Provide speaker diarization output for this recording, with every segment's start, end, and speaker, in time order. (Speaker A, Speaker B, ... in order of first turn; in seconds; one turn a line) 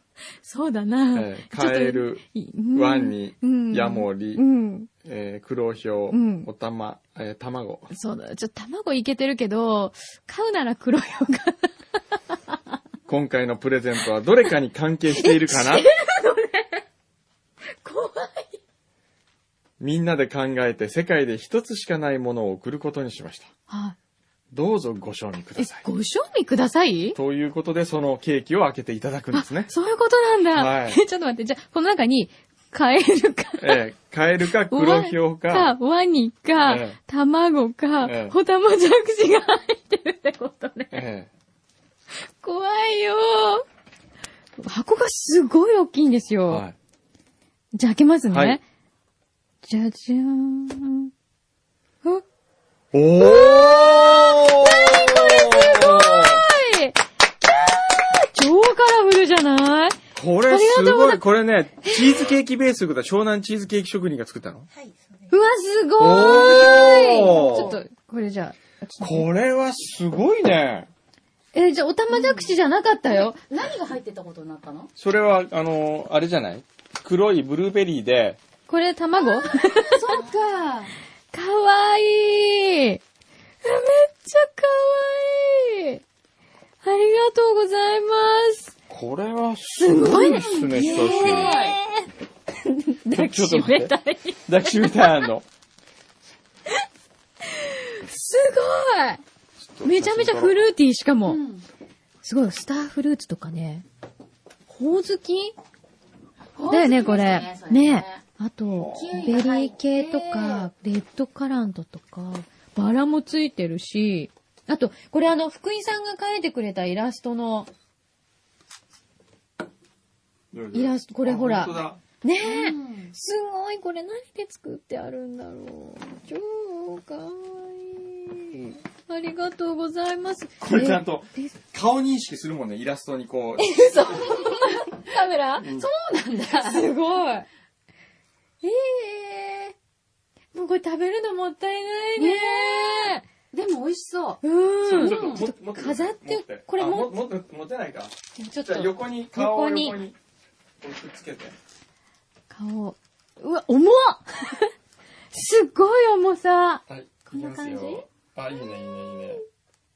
Speaker A: 0.4-4.9
Speaker B: 1.1-4.4
Speaker B: 5.0-7.9
Speaker A: 6.1-6.5
Speaker A: 7.9-11.7
Speaker B: 13.1-15.9
Speaker A: 15.1-16.8
Speaker A: 17.8-18.6
Speaker B: 19.8-23.5
Speaker A: 23.7-23.9
Speaker B: 24.5-25.8
Speaker A: 25.6-27.2
Speaker B: 27.1-29.7
Speaker A: 29.3-33.8
Speaker B: 30.5-31.0
Speaker B: 33.6-35.8
Speaker A: 34.7-41.0
Speaker B: 36.6-37.0
Speaker B: 38.0-38.4
Speaker B: 40.9-41.3
Speaker A: 42.1-43.6
Speaker A: 44.6-46.6
Speaker B: 46.5-46.7
Speaker A: 47.7-48.6
Speaker B: 48.3-48.6
Speaker A: 49.6-51.1
Speaker B: 52.9-56.4
Speaker A: 53.2-61.2
Speaker B: 60.1-64.7
Speaker A: 61.8-62.3
Speaker A: 65.3-69.3
Speaker B: 66.0-67.8
Speaker C: 66.3-67.7
Speaker B: 69.0-70.9
Speaker A: 71.5-73.4
Speaker C: 72.1-72.5
Speaker C: 73.1-74.9
Speaker B: 75.0-78.4
Speaker A: 78.7-80.2
Speaker C: 79.5-80.9
Speaker A: 81.3-83.0
Speaker A: 83.6-86.0
Speaker A: 86.8-88.7
Speaker B: 88.9-91.6
Speaker A: 89.8-92.1
Speaker C: 90.0-91.8
Speaker A: 92.6-95.3
Speaker B: 93.1-93.9
Speaker B: 94.5-95.5
Speaker A: 97.5-99.2
Speaker B: 99.6-100.7
Speaker A: 99.8-101.4
Speaker C: 101.2-101.6
Speaker A: 102.2-103.8
Speaker A: 104.7-105.5
Speaker C: 106.5-108.2
Speaker A: 106.7-117.7
Speaker C: 108.8-110.7
Speaker B: 120.5-122.0
Speaker A: 120.7-131.5
Speaker C: 122.4-123.1
Speaker B: 130.6-134.2
Speaker A: 133.6-135.7
Speaker C: 134.1-136.9
Speaker B: 135.6-135.9
Speaker A: 136.6-137.4
Speaker A: 138.6-139.7
Speaker A: 140.5-143.2
Speaker C: 142.2-145.4
Speaker A: 144.4-147.1
Speaker B: 144.8-150.2
Speaker A: 148.3-150.0
Speaker B: 150.8-151.6
Speaker A: 152.5-154.7
Speaker A: 155.3-158.0
Speaker B: 156.9-159.4
Speaker A: 159.1-159.4